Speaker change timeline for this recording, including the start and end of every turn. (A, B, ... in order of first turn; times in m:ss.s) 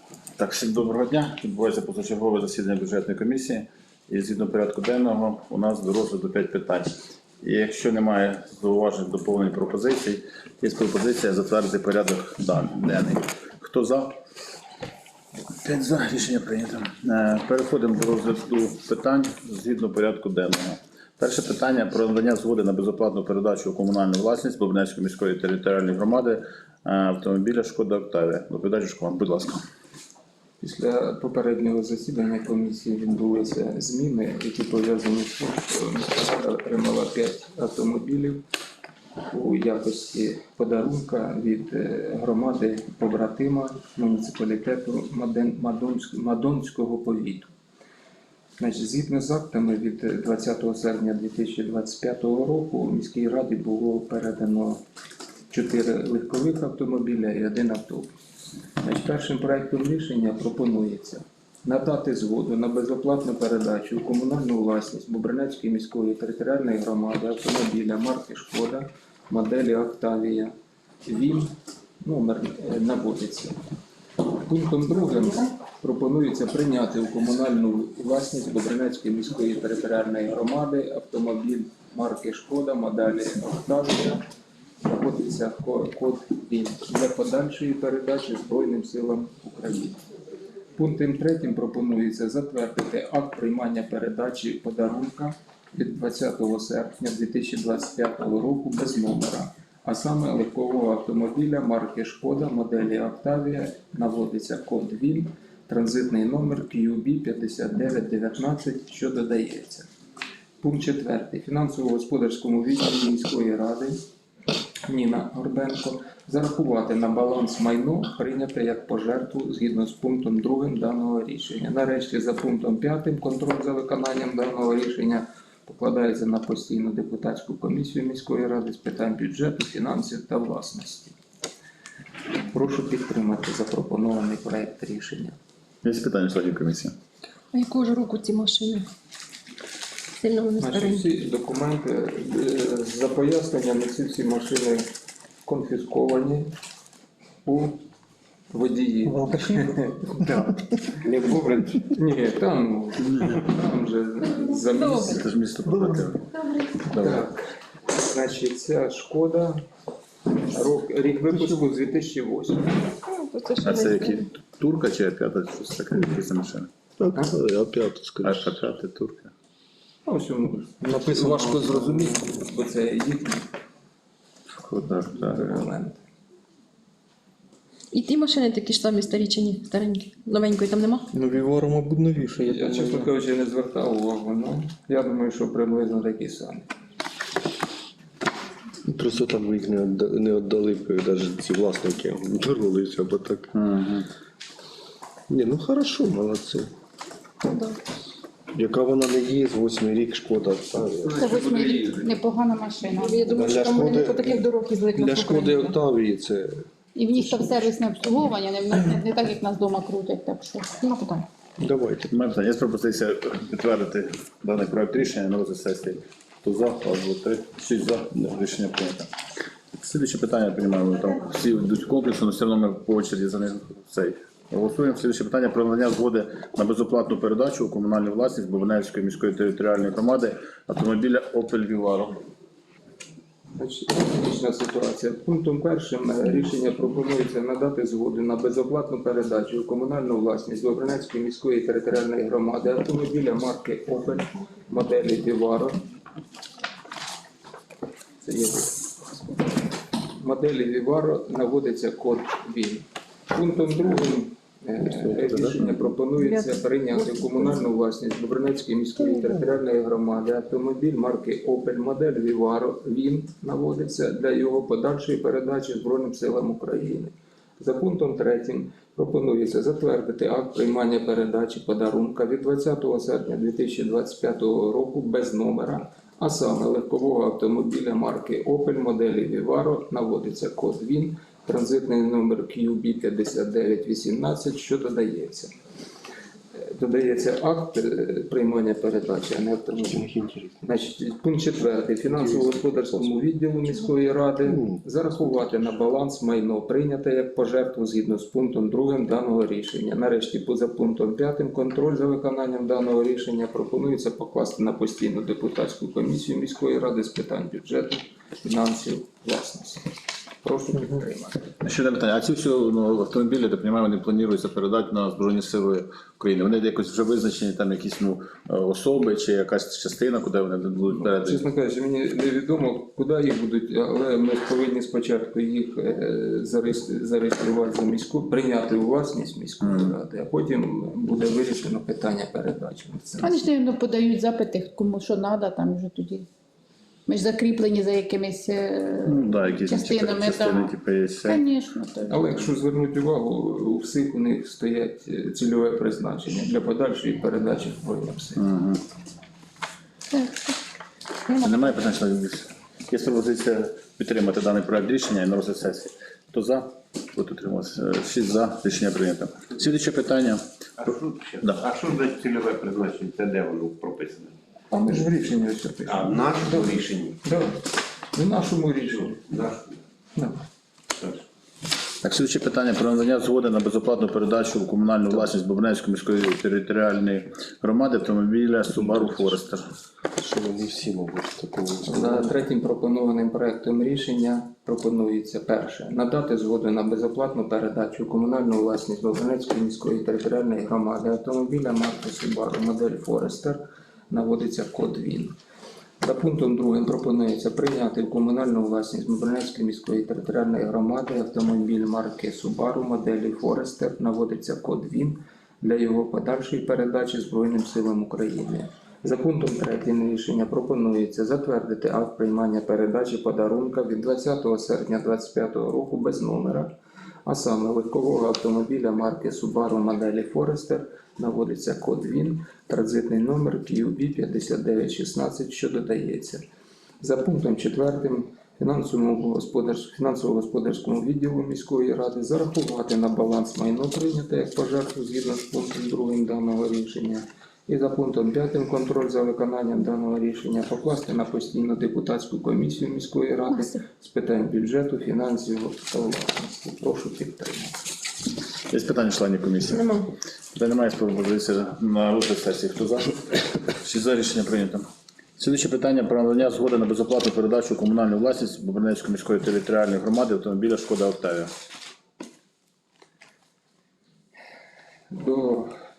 0:00.4-0:14.1 A
0:15.6-0:29.6 A
0:30.6-0:38.4 B
0:39.3-0:47.5 B
0:48.6-0:54.8 B
0:55.5-0:58.1 B
0:58.8-1:10.5 B
1:11.1-1:13.6 B
1:14.4-1:24.2 B
1:24.8-1:30.0 B
1:30.8-1:49.9 B
1:50.6-1:54.0 B
1:54.9-2:11.2 B
2:12.5-2:15.4 B
2:15.8-2:16.9 A
2:17.5-2:18.9 C
2:20.2-2:21.0 C
2:20.6-2:24.8 B
2:25.4-2:26.5 B
2:27.4-2:27.8 B
2:28.5-2:30.6 B
2:31.1-2:31.8 D
2:31.9-2:35.2 B
2:33.1-2:33.4 A
2:35.0-2:37.2 A
2:36.9-2:39.6 B
2:40.5-2:42.9 B
2:43.0-2:44.2 C
2:43.6-2:46.7 A
2:47.0-2:48.6 D
2:48.2-2:49.3 A
2:50.0-2:53.5 B
2:54.5-2:56.0 B
2:57.9-3:01.1 C
3:01.1-3:03.0 D
3:02.4-3:06.7 B
3:08.9-3:13.5 D
3:13.5-3:14.1 A
3:15.3-3:16.7 D
3:17.4-3:17.8 C
3:18.5-3:21.3 D
3:21.2-3:22.1 B
3:21.2-3:25.1 E
3:23.0-3:25.0 C
3:23.2-3:27.6 D
3:27.0-3:30.7 E
3:30.9-3:31.2 C
3:31.6-3:32.1 D
3:32.1-3:39.1 A
3:39.8-3:52.2 A
3:53.6-4:05.8 B
4:08.3-4:08.7 B
4:10.1-4:45.5 B
4:14.8-4:15.7 D
4:46.6-4:50.0 B
4:49.9-4:50.6 D
4:50.6-5:11.6 B
4:52.1-4:53.0 D
4:54.4-4:54.8 D
5:11.6-5:21.5 A
5:20.9-5:33.4 B
5:29.6-5:30.0 A
5:33.2-5:36.3 E
5:37.1-5:40.7 E
5:39.0-5:41.5 A
5:41.3-5:42.3 E
5:42.1-5:48.4 B
5:48.4-5:48.8 A
5:50.1-5:50.5 E
5:51.3-6:00.8 A
6:00.8-6:04.3 F
6:04.7-6:07.6 B
6:05.9-6:07.2 F
6:08.1-6:09.3 B
6:09.3-6:09.8 F
6:10.2-6:10.4 B
6:12.0-6:19.7 A
6:20.2-6:22.3 D
6:21.8-6:35.3 B
6:36.0-6:56.7 B
6:57.2-7:06.4 B
7:07.0-7:27.8 B
7:28.7-7:30.0 A
7:29.7-7:30.1 C
7:30.5-7:34.8 A
7:35.4-7:41.5 A
7:45.1-7:45.7 B